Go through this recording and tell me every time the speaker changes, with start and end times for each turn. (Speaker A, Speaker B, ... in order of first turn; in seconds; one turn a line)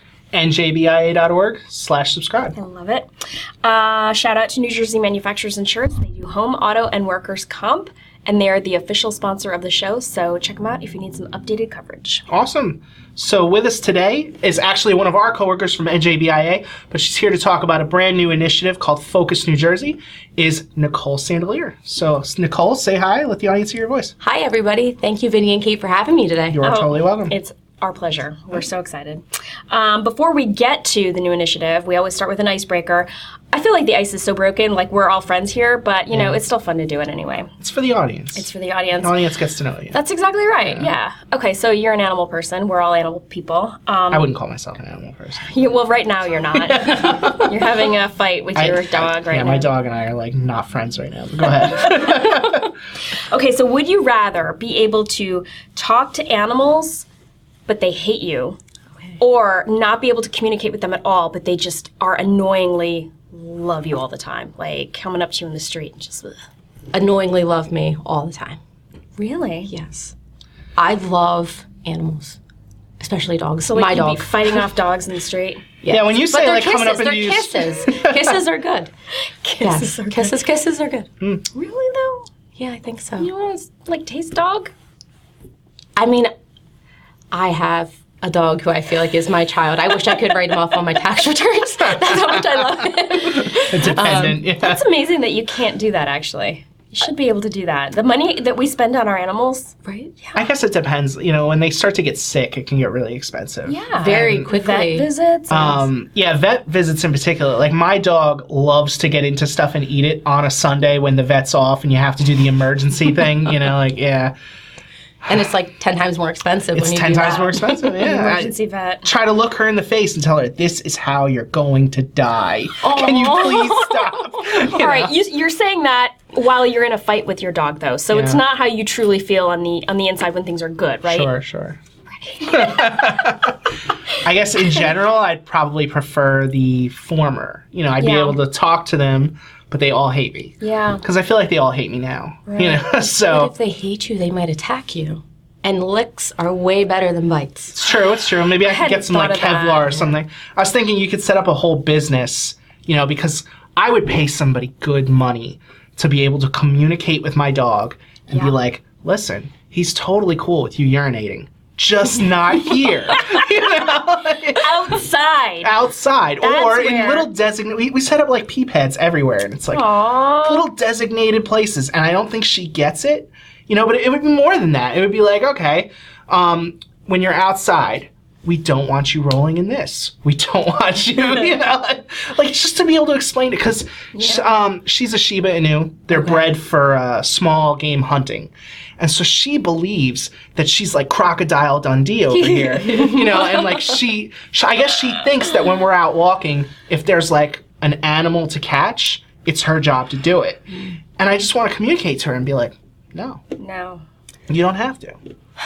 Speaker A: 0.3-2.5
Speaker B: 2.5-3.1
Speaker B: 3.6-12.2
Speaker A: 12.3-24.1
Speaker C: 24.2-26.8
Speaker A: 26.5-27.3
Speaker B: 26.6-37.5
Speaker A: 36.1-36.4
Speaker A: 37.6-38.5
Speaker B: 38.3-39.2
Speaker A: 39.0-40.0
Speaker B: 39.9-44.3
Speaker A: 44.1-45.5
Speaker B: 45.5-49.7
Speaker A: 46.6-47.5
Speaker A: 48.5-52.7
Speaker B: 51.8-57.0
Speaker B: 57.7-58.6
Speaker B: 59.2-66.4
Speaker C: 66.9-68.6
Speaker B: 69.2-69.7
Speaker C: 69.7-70.1
Speaker C: 70.8-72.4
Speaker C: 73.0-74.6
Speaker B: 73.6-75.6
Speaker C: 75.8-78.9
Speaker A: 75.9-78.4
Speaker B: 79.4-80.3
Speaker C: 79.6-81.1
Speaker B: 81.5-82.3
Speaker C: 82.5-83.3
Speaker B: 83.2-84.7
Speaker C: 86.0-86.3
Speaker C: 87.3-94.4
Speaker B: 92.3-100.4
Speaker A: 93.7-94.8
Speaker C: 99.8-100.1
Speaker A: 100.3-104.5
Speaker B: 103.7-105.9
Speaker C: 104.0-105.1
Speaker A: 105.5-114.3
Speaker C: 115.3-117.7
Speaker A: 116.7-118.5
Speaker B: 117.5-119.1
Speaker A: 119.0-125.1
Speaker C: 122.8-124.6
Speaker B: 124.6-131.3
Speaker A: 128.1-128.4
Speaker A: 131.1-131.8
Speaker B: 132.2-133.2
Speaker A: 132.4-133.7
Speaker A: 134.2-143.5
Speaker B: 138.0-138.4
Speaker B: 140.6-141.0
Speaker B: 142.5-142.8
Speaker C: 143.2-147.7
Speaker A: 147.7-164.9
Speaker B: 148.6-150.0
Speaker B: 163.1-163.5
Speaker B: 164.6-165.7
Speaker A: 165.6-200.7
Speaker B: 166.4-167.3
Speaker B: 169.7-170.7
Speaker B: 184.1-184.5
Speaker C: 186.1-186.5
Speaker B: 192.4-193.2
Speaker C: 192.8-193.2
Speaker A: 201.2-203.4
Speaker B: 203.6-204.0
Speaker A: 204.5-205.2